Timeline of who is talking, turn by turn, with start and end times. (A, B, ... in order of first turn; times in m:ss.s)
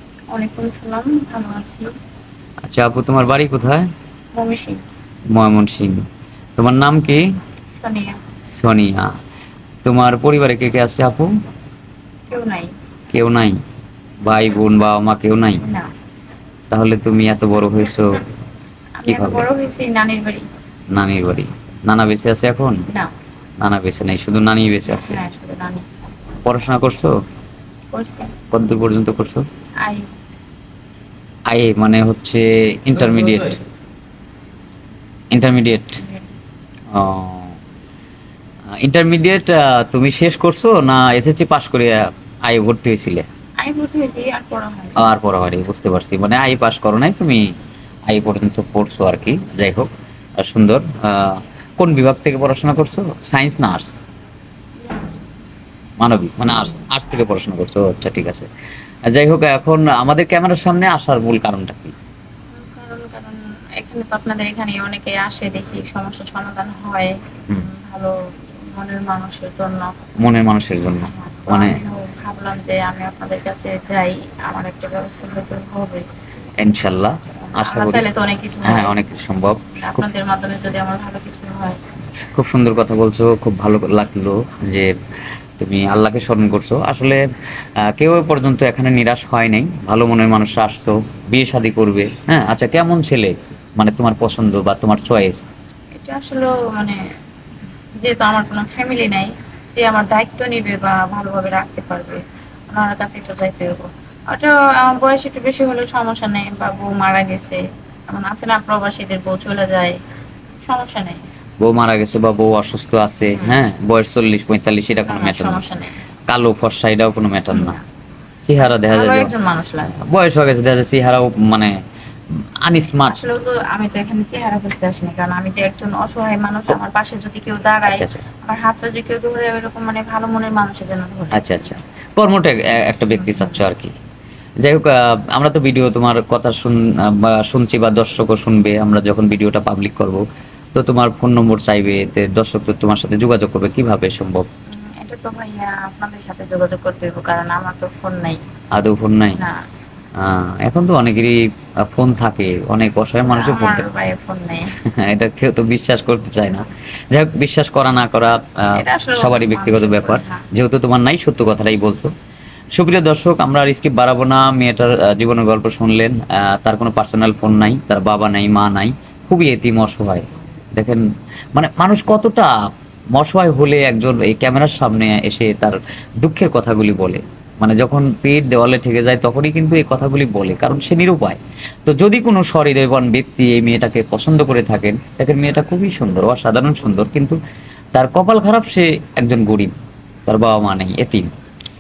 0:00.3-0:01.9 A
0:02.6-0:03.9 B
0:04.3-0:04.8 A
0:05.3-0:06.0 B
0:06.6-0:07.2 B
0:07.7-0:08.2 A
0:08.4-0:09.1 B
0:09.8-0:11.3 B
0:12.3-0:12.7 A
0:13.1-0:13.6 B
0:14.2-0:15.6 B
0:15.6-0:15.9 A
0:16.7-0:18.2 B
0:19.0-0:20.5 A
0:19.1-0:19.4 B
0:20.9-0:22.8 B
0:23.6-0:25.2 B
0:24.8-0:25.9 A
0:26.4-0:27.1 B
0:27.9-0:28.3 A
0:28.5-0:29.4 B
0:31.5-0:33.6 B
0:35.3-0:36.0 B
0:36.0-0:36.3 A
0:36.9-0:37.6 B
0:38.8-0:43.2 B
0:43.6-0:45.0 A
0:45.0-0:47.5 B
0:48.1-0:53.9 B
0:54.8-0:55.2 A
0:56.0-0:58.5 B
0:59.1-1:01.9 B
1:02.5-1:08.1 A
1:08.7-1:09.9 A
1:10.2-1:11.8 B
1:11.1-1:16.0 A
1:16.6-1:18.0 B
1:17.5-1:19.0 A
1:18.6-1:20.0 B
1:19.8-1:21.8 A
1:22.3-1:24.9 B
1:25.6-1:27.2 B
1:27.9-1:35.4 B
1:36.0-1:37.0 A
1:38.0-1:50.0 A
1:50.6-1:51.2 A
1:51.6-1:55.6 B
1:53.3-1:53.6 A
1:55.1-1:56.0 A
1:56.3-1:57.8 B
1:57.5-1:57.8 A
1:58.4-1:59.3 B
1:58.8-1:59.9 A
1:59.9-2:01.7 B
2:02.6-2:03.2 B
2:03.0-2:11.6 A
2:07.9-2:08.2 B
2:11.3-2:13.9 B
2:13.2-2:13.6 A
2:14.6-2:20.2 B
2:20.7-2:24.4 B
2:24.7-2:28.4 A
2:28.7-2:29.4 B
2:30.2-2:33.8 B
2:33.2-2:34.7 A
2:34.9-2:42.1 B
2:38.7-2:40.4 A
2:42.7-2:52.5 B
2:53.2-3:07.4 B
3:07.9-3:09.7 B
3:10.3-3:11.3 B